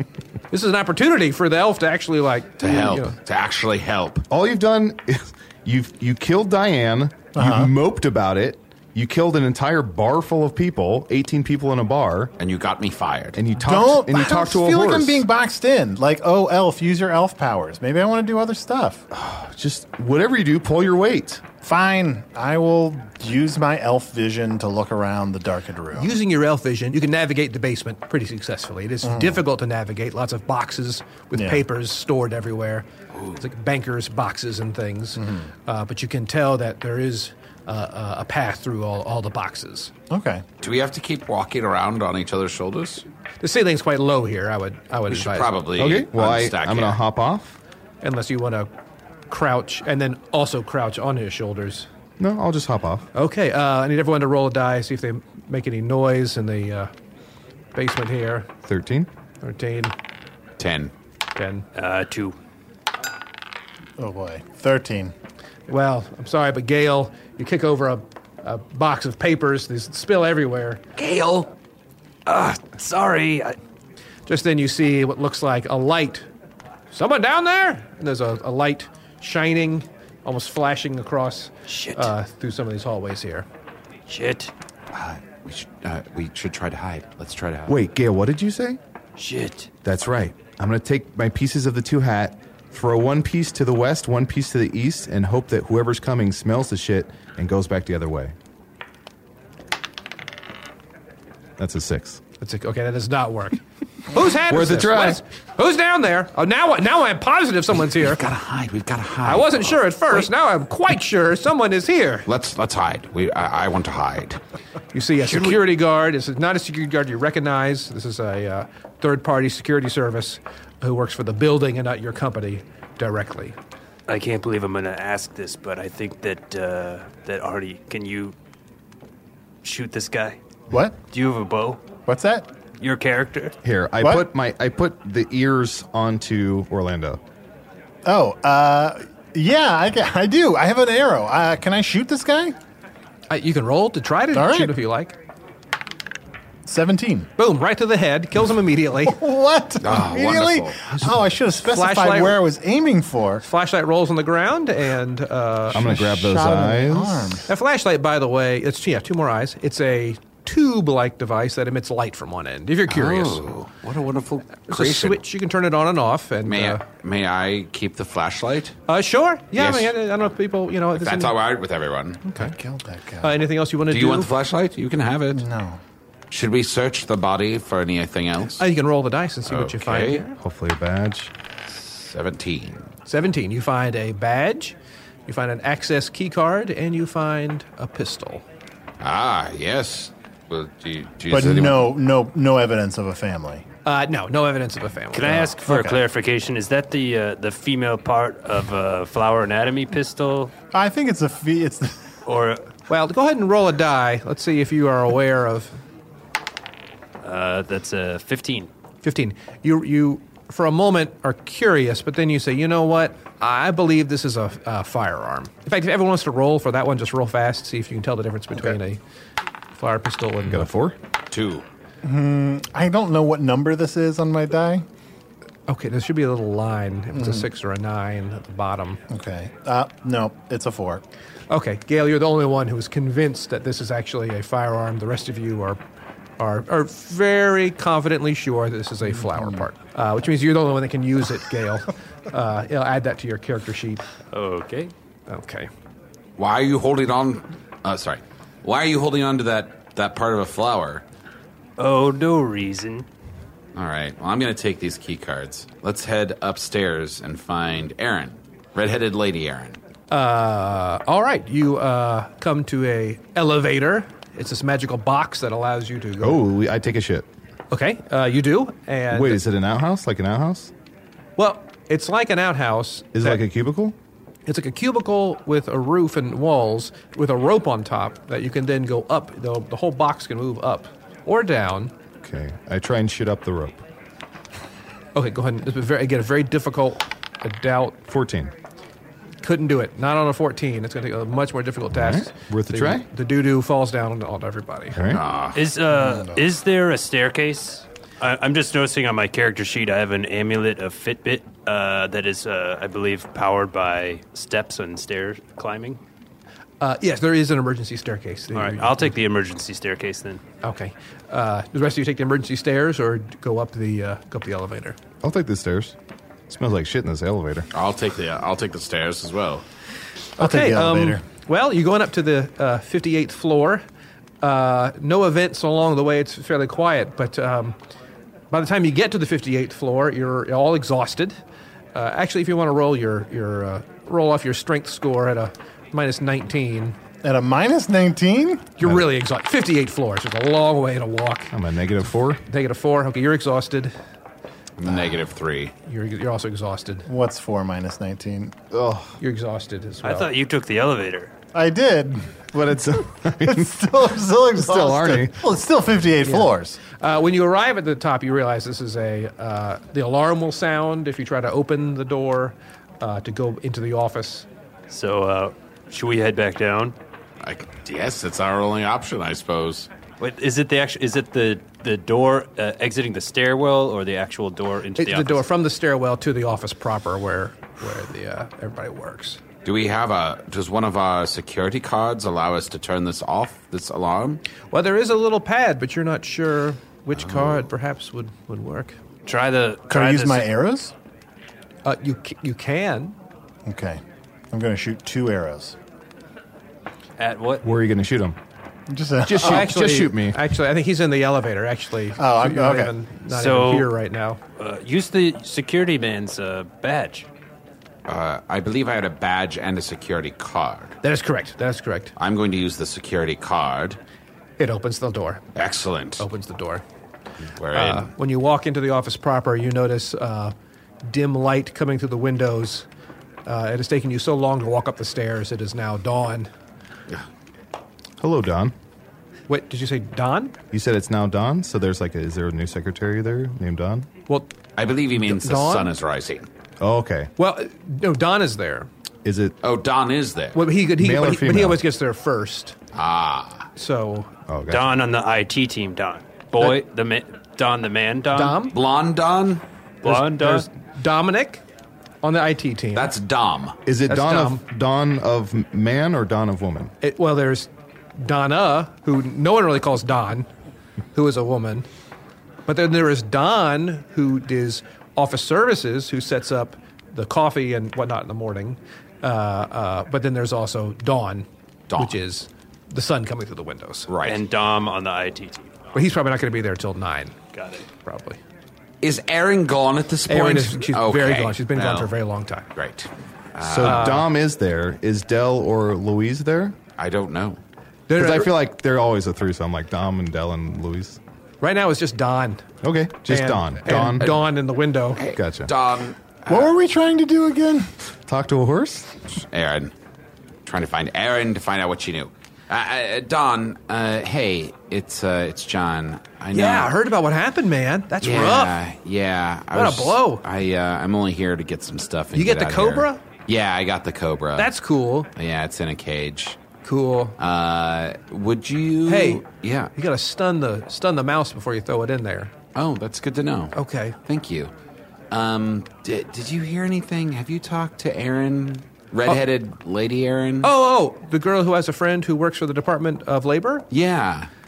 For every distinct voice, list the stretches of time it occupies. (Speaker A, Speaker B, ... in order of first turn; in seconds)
Speaker A: 0.5-3.1, 25.9-32.9, 33.4-39.9, 43.4-45.5, 48.0-48.7, 49.3-51.9, 53.1-56.9, 57.7-58.5, 59.4-59.9, 61.4-61.6, 65.7-70.8, 74.3-76.3, 76.9-83.5, 102.4-108.2, 109.2-112.2, 114.9-123.5, 143.3-145.1, 147.4-149.2, 151.7-152.4, 153.4-155.9, 157.5-163.4, 164.7-166.8, 168.9-171.3, 172.2-172.5, 173.2-174.3, 178.6-180.4, 183.1-184.7, 185.3-188.4, 193.8-195.5, 202.9-205.8, 209.0-219.0, 219.7-220.7, 225.7-229.0, 231.5-235.8, 236.4-244.0, 245.3-245.7, 260.1-266.4, 267.7-269.4, 271.4-273.4, 274.5-281.9, 285.1-288.0, 289.4-295.0, 306.8-309.1, 310.6-315.0, 320.4-323.8, 324.4-327.8, 328.5-331.4, 331.9-336.9, 338.8-341.5, 342.4-343.9, 345.9-347.1, 349.2-350.3, 357.0-364.4, 375.0-379.4, 384.7-388.9, 391.8-393.1, 399.4-404.4, 411.0-412.1, 414.6-415.4, 416.2-416.8, 417.7-420.5, 421.1-422.9, 423.4-426.5, 429.5-430.6, 435.1-435.9, 437.4-438.9, 440.5-442.7, 443.8-444.3, 448.3-448.8, 450.0-451.6, 452.2-453.1, 454.1-454.6, 457.0-460.5, 461.1-461.9, 462.7-474.1, 475.9-477.4, 478.0-478.4, 480.3-482.7, 483.8-484.3, 488.1-488.5, 491.6-492.6, 493.2-495.2, 506.5-508.8, 509.7-510.4, 512.3-513.2, 514.6-515.3, 516.8-517.4, 519.1-519.4, 519.9-522.5, 523.7-524.1, 530.6-533.8
Speaker B: 2.6-4.2, 12.4-13.4, 33.1-33.4, 40.6-43.0, 45.1-47.0, 60.6-60.9, 84.9-87.8, 107.9-110.3, 112.2-114.4, 149.8-151.1, 162.9-165.2, 166.4-168.8, 169.5-169.9, 170.9-172.2, 173.9-175.4, 176.3-178.6, 179.5-180.2, 181.9-182.9, 189.0-191.9, 221.3-221.6, 246.4-251.0, 253.7-259.8, 295.1-295.6, 317.7-319.6, 344.8-345.7, 367.4-369.9, 379.6-384.4, 387.1-387.6, 408.1-410.9, 412.1-414.0, 415.5-416.2, 417.5-418.1, 434.8-436.5, 439.6-440.6, 442.9-443.7, 448.7-449.6, 452.9-453.8, 471.9-472.2, 474.1-474.4, 479.0-482.1, 482.8-484.2, 487.0-487.6, 495.2-496.7, 499.5-499.9, 500.6-506.9, 508.2-514.7, 515.3-516.6, 517.4-519.9, 522.7-524.7, 525.3-530.7, 533.9-534.5
Speaker C: 4.3-12.3, 13.3-15.2, 19.1-21.4, 45.8-47.6, 52.2-53.1, 58.6-59.1, 87.7-88.8, 89.8-98.3, 101.6-102.2, 104.5-105.2, 133.6-137.2, 155.7-157.4, 180.4-181.3, 220.5-220.9, 266.2-267.3, 269.1-270.7, 273.1-273.9, 282.2-283.8, 288.1-288.5, 291.9-293.1, 294.9-295.2, 315.2-315.9, 316.5-317.7, 341.5-342.4, 348.7-349.1, 352.5-353.8, 354.6-355.4, 397.6-398.4, 399.2-400.4, 428.2-428.7, 430.7-434.1, 436.8-437.3, 439.2-439.6, 440.9-441.8, 444.5-444.9, 453.9-456.9, 483.6-486.8, 488.1-491.2, 492.8-494.4, 495.3-495.7, 498.3-499.2
Speaker D: 7.3-7.7, 13.6-19.0, 21.6-26.1, 29.0-29.4, 31.3-31.6, 35.2-35.5, 40.1-40.4, 64.0-65.1, 130.7-130.9, 132.1-132.5, 134.0-134.2, 138.0-142.6, 144.3-144.8, 146.7-147.3, 149.0-153.4, 155.7-157.5, 172.3-173.4, 175.3-175.8, 191.3-193.6, 195.4-195.9, 200.7-202.1, 222.0-224.8, 227.1-227.4, 229.1-231.0, 239.2-239.7, 295.9-296.4, 320.4-321.2, 337.2-338.7, 347.1-348.5, 351.5-356.8, 389.9-390.9, 393.6-394.0, 394.5-395.8, 398.9-399.7, 402.2-402.9, 496.5-497.9
Speaker E: 61.7-62.4, 71.0-71.5, 72.2-73.6, 81.7-82.1, 84.1-84.5, 89.2-89.7, 124.1-128.3, 129.6-130.4, 131.1-131.8, 132.8-133.6, 195.1-200.5, 202.2-202.7, 207.2-208.7, 244.3-244.9, 251.8-253.1, 295.5-306.0, 308.5-310.4, 350.0-351.3, 364.9-366.9, 370.2-375.4, 389.2-390.5, 397.2-397.6, 403.3-403.9, 404.6-407.3, 444.7-448.6, 450.0-450.7, 474.2-475.8, 477.5-477.9